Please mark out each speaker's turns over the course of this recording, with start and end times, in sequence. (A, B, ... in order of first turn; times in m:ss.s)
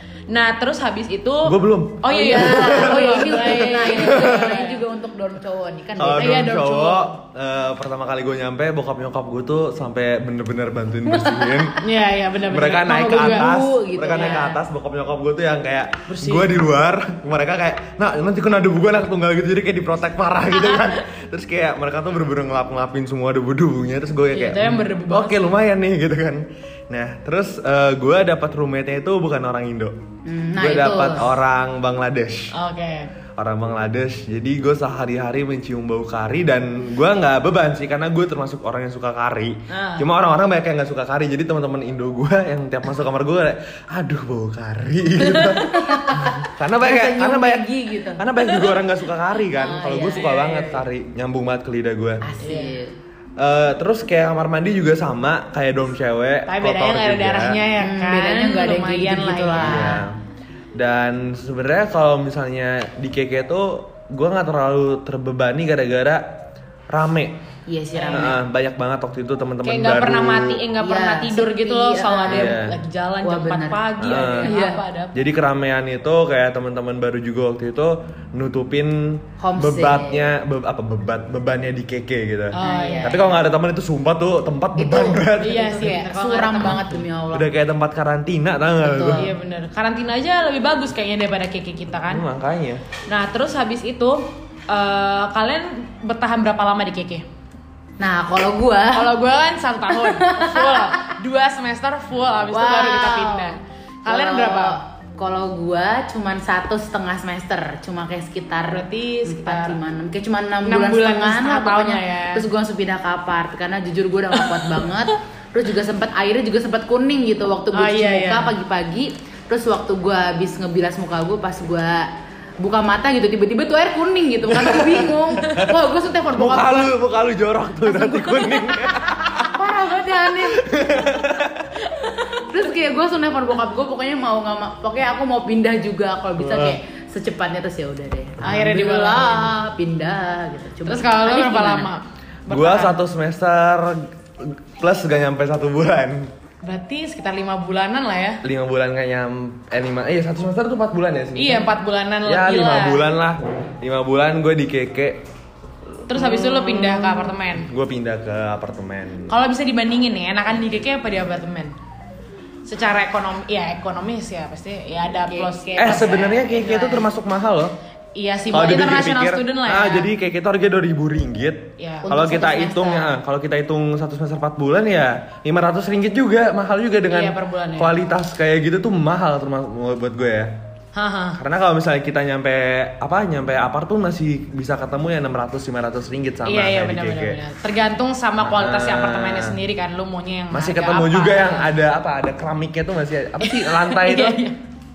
0:00.3-0:04.8 A
0:01.4-0:03.3 B
0:02.1-0:06.6 C
0:03.9-0:04.6 B
0:06.0-0:11.8 B
0:06.2-0:07.2 A
0:11.2-0:11.7 C
0:11.8-0:13.5 A
0:12.5-0:30.0 B
0:12.9-0:14.6 C
0:14.2-0:14.4 A
0:16.1-0:16.5 A
0:24.3-0:25.5 A
0:30.3-0:31.3 C
0:30.6-0:32.5 B
0:32.5-0:33.1 A
0:33.4-0:52.3 B
0:39.7-0:40.1 A
0:45.4-0:48.7 C
0:49.5-0:50.3 C
0:49.9-0:50.8 A
0:52.2-0:52.9 C
0:52.4-0:52.8 A
0:53.4-0:57.7 B
0:56.5-0:59.9 A
0:57.8-1:00.0 C
0:59.6-1:00.2 B
1:00.8-1:06.4 B
1:06.9-1:07.4 B
1:07.7-1:08.4 C
1:08.0-1:08.3 A
1:08.1-1:10.6 B
1:09.6-1:15.2 A
1:10.8-1:12.6 C
1:12.3-1:12.8 B
1:13.2-1:13.9 C
1:14.0-1:14.6 B
1:14.4-1:14.8 C
1:15.1-1:25.9 B
1:19.4-1:20.3 C
1:22.5-1:23.2 A
1:22.6-1:23.4 C
1:24.8-1:27.5 C
1:25.4-1:27.0 A
1:26.7-1:29.3 B
1:28.8-1:29.3 C
1:29.1-1:32.2 A
1:32.1-1:32.8 B
1:33.1-1:37.2 A
1:38.0-1:39.1 C
1:38.9-1:44.8 A
1:40.0-1:41.1 C
1:42.5-1:43.5 C
1:44.1-2:06.9 C
1:48.7-1:49.8 A
1:50.6-1:52.5 A
1:54.4-1:54.7 A
1:57.7-1:58.5 A
2:04.5-2:05.8 B
2:06.3-2:09.6 B
2:08.1-2:08.5 C
2:09.3-2:11.1 C
2:10.4-2:11.8 B
2:11.8-2:12.6 A
2:12.5-2:21.9 C
2:16.4-2:16.8 B
2:18.4-2:19.5 A
2:20.8-2:23.0 A
2:22.5-2:26.3 B
2:26.6-2:28.4 A
2:28.4-2:31.7 B
2:31.4-2:33.1 A
2:32.2-2:35.2 B
2:36.1-2:37.7 A
2:36.1-2:39.3 B
2:39.3-2:41.7 A
2:42.6-2:47.1 A
2:45.3-2:45.9 C
2:45.8-2:47.8 B
2:48.2-2:50.1 A
2:48.5-3:00.6 B
2:51.8-2:52.1 A
2:52.0-2:53.1 C
2:57.1-2:58.0 A
3:00.9-3:01.4 A
3:01.4-3:07.4 B
3:06.4-3:11.7 A
3:08.4-3:09.6 B
3:10.5-3:14.4 B
3:13.4-3:14.6 A